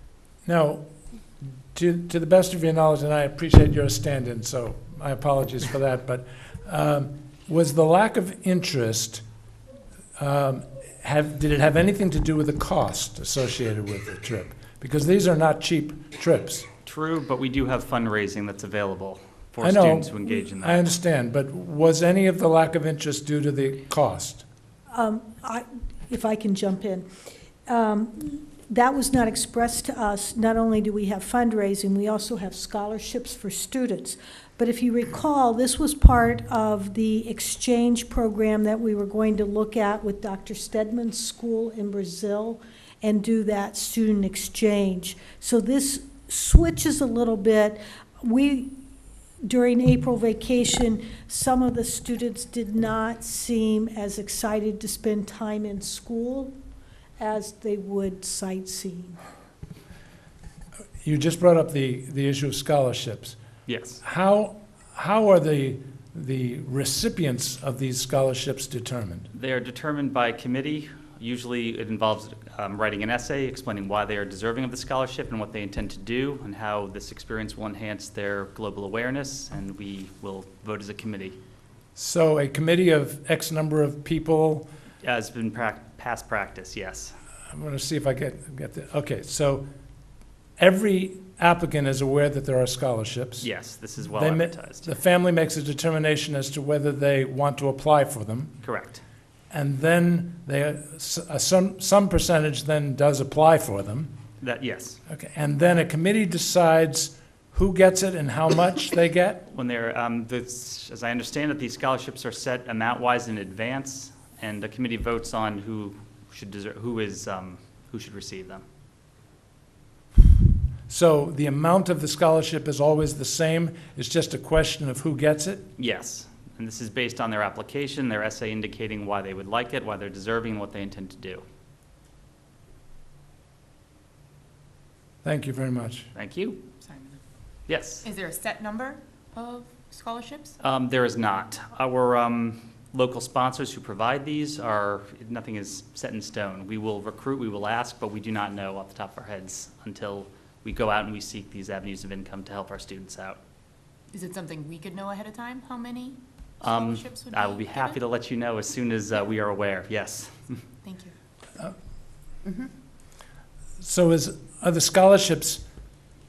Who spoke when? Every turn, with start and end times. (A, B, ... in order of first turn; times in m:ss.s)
0:00.4-0:00.8 A
0:01.7-0:09.2 A
0:10.2-0:16.7 A
0:16.8-0:20.9 B
0:19.6-0:24.4 A
0:24.9-0:27.1 C
0:27.7-0:48.7 C
0:49.4-0:56.5 C
0:57.2-0:59.2 C
1:01.0-1:03.4 A
1:03.7-1:04.0 B
1:04.0-1:09.3 A
1:09.3-1:21.4 B
1:22.0-1:24.7 A
1:25.0-1:27.2 B
1:27.5-1:29.6 A
1:30.6-1:33.5 A
1:33.4-1:34.9 B
1:34.1-1:38.5 A
1:38.6-1:39.0 B
1:39.5-1:44.1 A
1:44.4-1:45.0 B
1:45.1-1:49.4 A
1:49.5-1:58.6 B
2:00.9-2:05.7 A
2:05.8-2:11.4 B
2:15.2-2:16.1 A
2:16.2-2:16.6 B
2:16.8-2:17.2 D
2:17.7-2:18.0 B
2:18.0-2:20.6 D
2:20.6-2:33.4 B
2:34.1-2:38.0 D
2:36.6-2:40.6 B
2:40.8-2:41.1 D
2:43.8-2:45.6 A